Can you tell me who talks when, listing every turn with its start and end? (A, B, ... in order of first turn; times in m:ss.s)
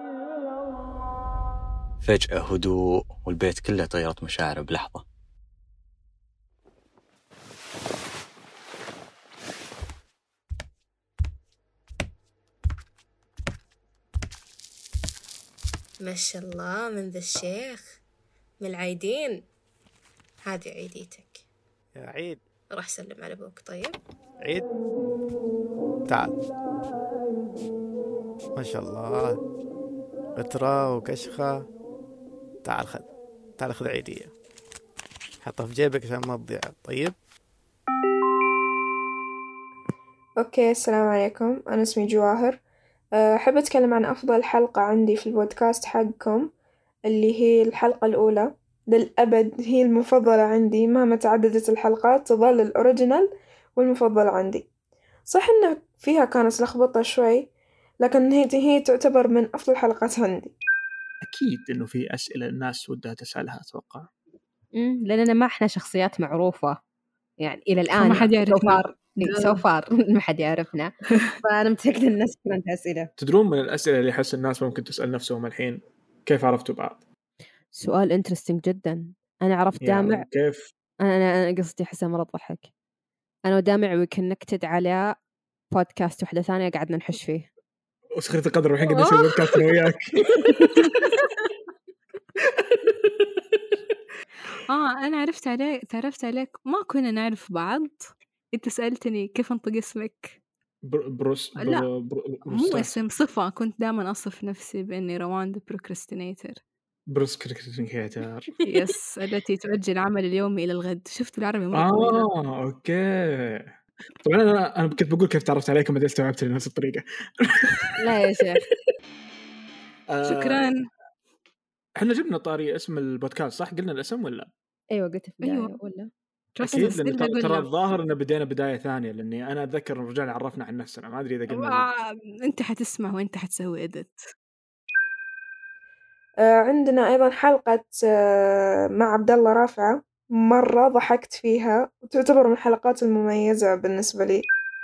0:02.0-0:05.0 A
0:16.0-0:17.9 B
0:18.6-0:19.4 B
0:20.4-0:21.4 B
0:22.0-0:22.4 C
0:22.7-0:24.0 B
0:26.1-0:26.4 C
0:28.6-0:29.4 C
0:30.4-0:31.7 C
0:32.6-0:34.3 C
0:35.4-0:37.1 C
0:40.4-0:42.6 D
0:43.2-0:46.4 D
0:47.1-0:54.6 D
0:55.3-0:57.4 D
0:58.0-1:00.5 D
1:01.2-1:04.1 E
1:04.8-1:06.8 F
1:07.4-1:13.1 F
1:08.0-1:09.6 G
1:13.2-1:17.0 E
1:17.8-1:20.2 F
1:19.8-1:20.7 E
1:21.0-1:22.7 F
1:23.5-1:25.1 F
1:25.7-1:27.5 F
1:28.2-1:30.1 E
1:28.9-1:29.1 G
1:30.4-1:31.1 G
1:34.7-1:40.4 G
1:40.8-1:42.9 E
1:41.6-1:41.8 G
1:42.5-1:46.6 G
1:47.1-1:48.5 E
1:48.6-1:52.3 G
1:51.7-1:53.7 E
1:54.2-1:57.6 E
1:58.0-1:58.6 F
2:00.1-2:00.7 E
2:00.2-2:00.8 G
2:02.0-2:04.5 E
2:04.9-2:06.1 F
2:05.4-2:05.7 G
2:06.6-2:07.7 G
2:06.6-2:11.9 E
2:11.5-2:14.2 G
2:16.4-2:24.4 D